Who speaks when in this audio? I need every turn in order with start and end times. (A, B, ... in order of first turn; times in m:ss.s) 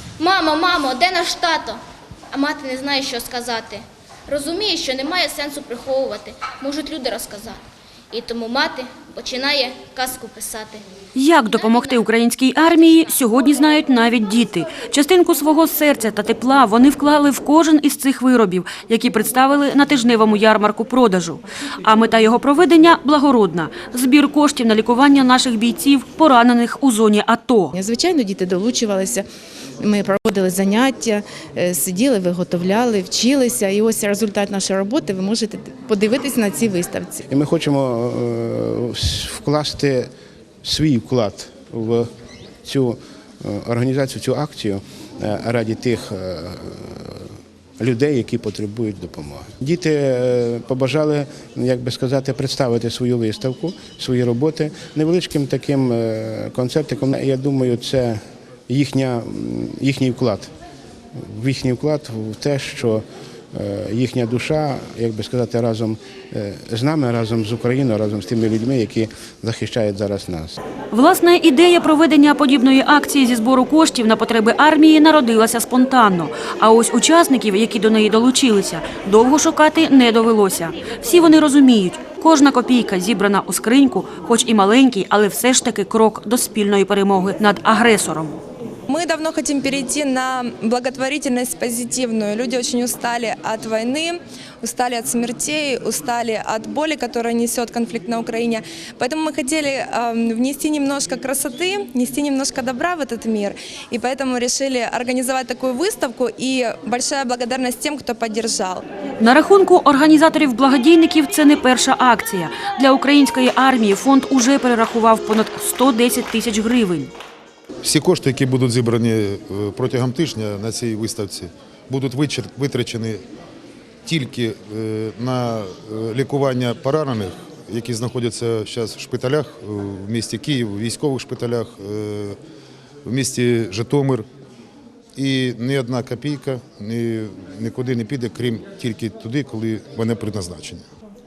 0:00.2-0:01.8 A
0:02.3-0:07.6 A
0:08.1-0:10.8 A
0:11.2-0:27.7 B
0:27.7-0:29.3 C
0:29.8-0:37.2 C
0:37.3-0:40.1 D
0:40.6-0:42.1 D
0:42.6-0:47.3 D
0:47.8-1:00.5 D
1:01.2-1:10.6 D
1:10.9-1:28.4 B
1:28.9-1:48.8 E
1:49.2-1:57.1 B
1:57.8-2:03.2 F
2:04.0-2:12.4 F
2:13.0-2:14.3 F
2:15.2-2:20.9 F